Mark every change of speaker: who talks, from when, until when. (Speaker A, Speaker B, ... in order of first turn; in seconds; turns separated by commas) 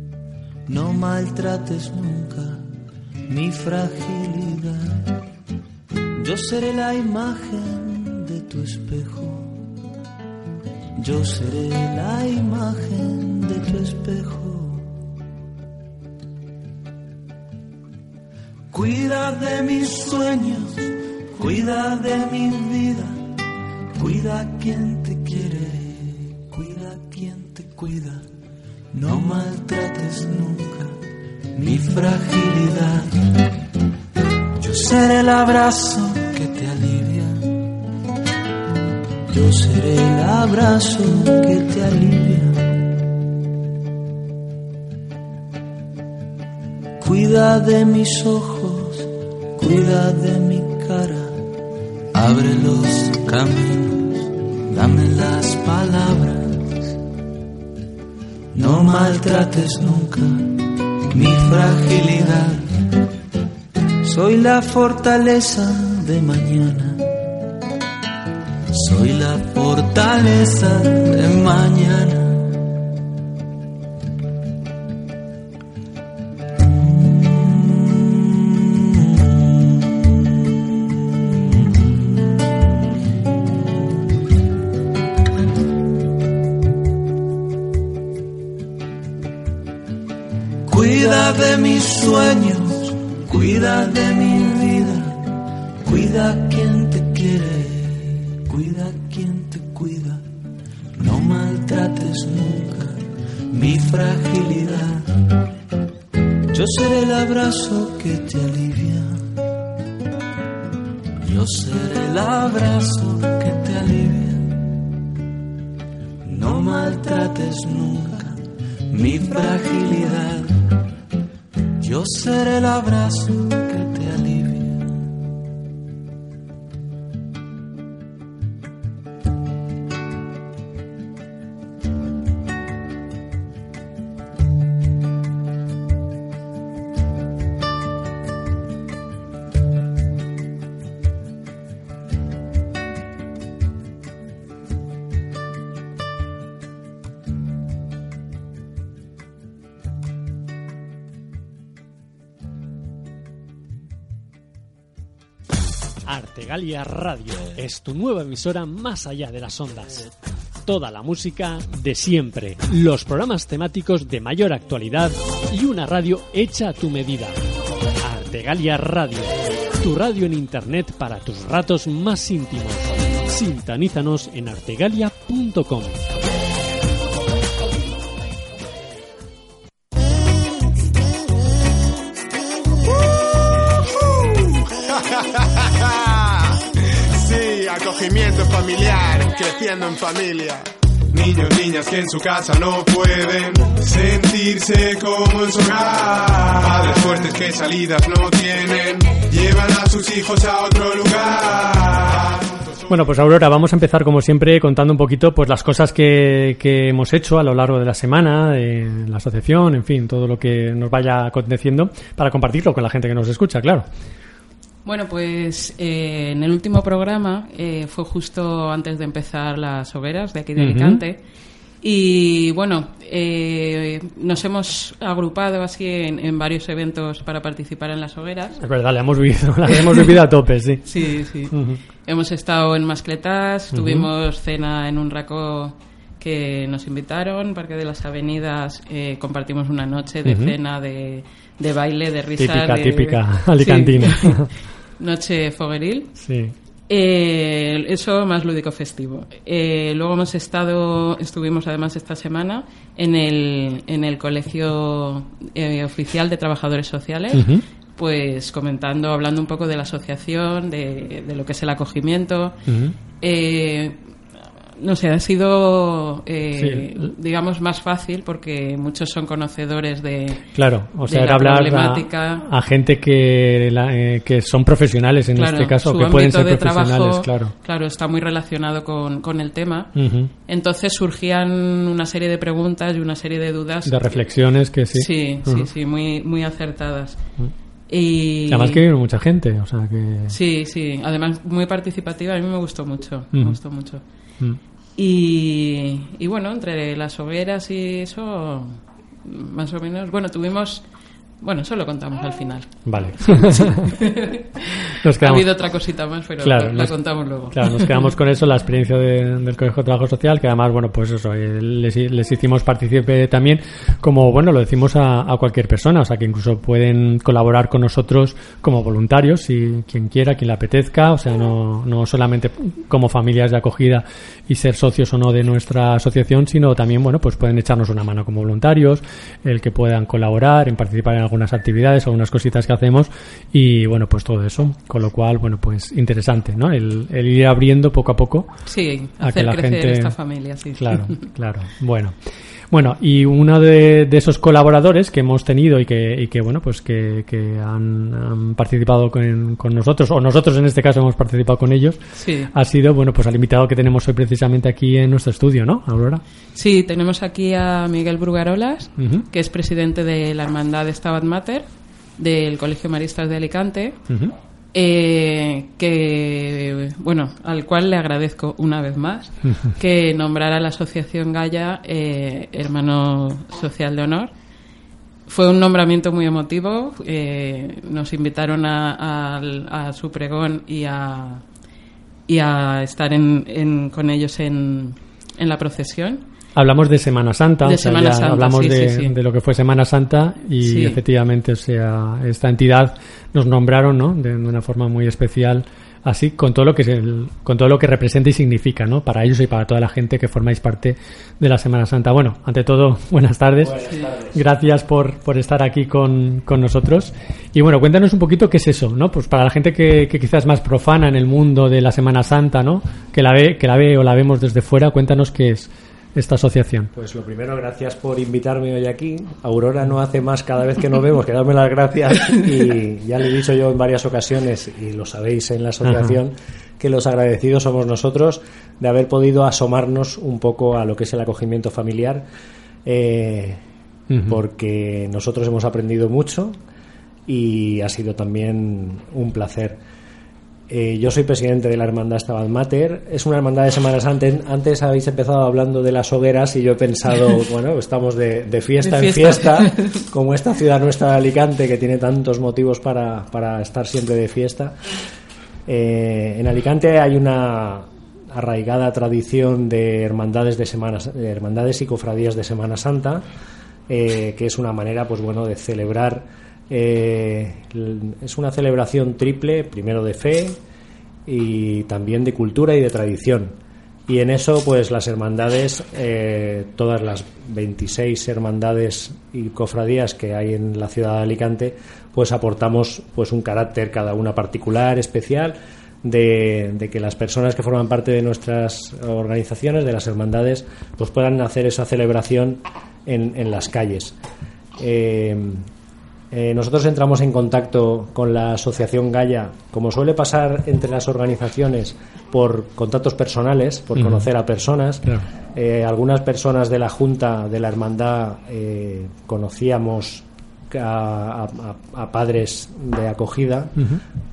Speaker A: 0.7-2.6, Speaker A: 3.3-5.1, Speaker A: 6.2-9.5, Speaker A: 11.0-14.9, Speaker A: 18.7-23.2, Speaker A: 23.9-28.2, Speaker A: 28.9-30.9, Speaker A: 31.5-33.1, Speaker A: 34.6-37.4, Speaker A: 39.3-42.9, Speaker A: 47.0-51.4, Speaker A: 52.1-57.0, Speaker A: 58.5-62.7, Speaker A: 64.0-67.0, Speaker A: 68.7-72.5, Speaker A: 77.1-77.4, Speaker A: 90.7-95.2, Speaker A: 95.8-100.2, Speaker A: 101.0-105.1, Speaker A: 106.5-109.3, Speaker A: 111.2-114.8, Speaker A: 116.2-120.7, Speaker A: 121.8-125.0, Speaker B: 156.1-160.1, Speaker B: 160.6-167.4, Speaker B: 168.0-176.0, Speaker C: 182.9-183.4, Speaker C: 183.9-186.6, Speaker C: 187.1-202.8, Speaker B: 202.9-213.8, Speaker D: 214.8-221.2, Speaker B: 220.6-221.0, Speaker D: 221.8-228.6, Speaker B: 228.6-230.9, Speaker D: 229.7-230.1, Speaker D: 230.8-244.5, Speaker B: 231.5-231.8, Speaker B: 233.7-234.1, Speaker B: 240.2-240.5, Speaker B: 242.4-244.5, Speaker D: 245.0-246.1, Speaker B: 246.2-246.5, Speaker D: 246.9-262.6, Speaker B: 257.3-257.6, Speaker B: 262.7-262.9, Speaker D: 263.2-264.0, Speaker D: 264.8-270.4, Speaker B: 266.6-267.1, Speaker B: 270.5-277.5, Speaker D: 271.1-272.4, Speaker D: 275.4-279.9, Speaker B: 279.9-280.3, Speaker D: 280.5-284.3, Speaker B: 283.9-285.7, Speaker D: 284.9-287.2, Speaker D: 287.9-288.8, Speaker B: 288.5-290.3, Speaker D: 290.3-294.0, Speaker D: 294.9-304.6, Speaker B: 302.9-303.9, Speaker B: 305.0-305.5, Speaker D: 305.2-307.9, Speaker B: 306.4-338.5, Speaker D: 338.7-341.2, Speaker B: 339.2-340.1, Speaker B: 340.7-342.1, Speaker B: 342.7-352.0, Speaker D: 352.1-352.5, Speaker B: 352.5-356.2, Speaker D: 356.5-364.0, Speaker B: 359.0-359.2, Speaker D: 364.7-374.3, Speaker D: 375.3-381.4, Speaker D: 382.3-386.2, Speaker B: 386.6-403.8, Speaker D: 387.6-389.1, Speaker D: 390.6-391.0, Speaker E: 403.6-404.4, Speaker B: 404.3-416.9, Speaker E: 416.9-432.2, Speaker B: 425.8-426.1, Speaker E: 432.8-433.6, Speaker B: 434.1-434.4, Speaker E: 434.3-436.6, Speaker E: 437.3-439.8, Speaker E: 440.7-454.8, Speaker D: 448.8-449.9, Speaker E: 455.6-463.2, Speaker E: 463.9-470.6, Speaker E: 471.2-473.6, Speaker E: 474.1-494.1, Speaker E: 494.8-495.7, Speaker E: 496.3-513.9, Speaker B: 504.0-504.2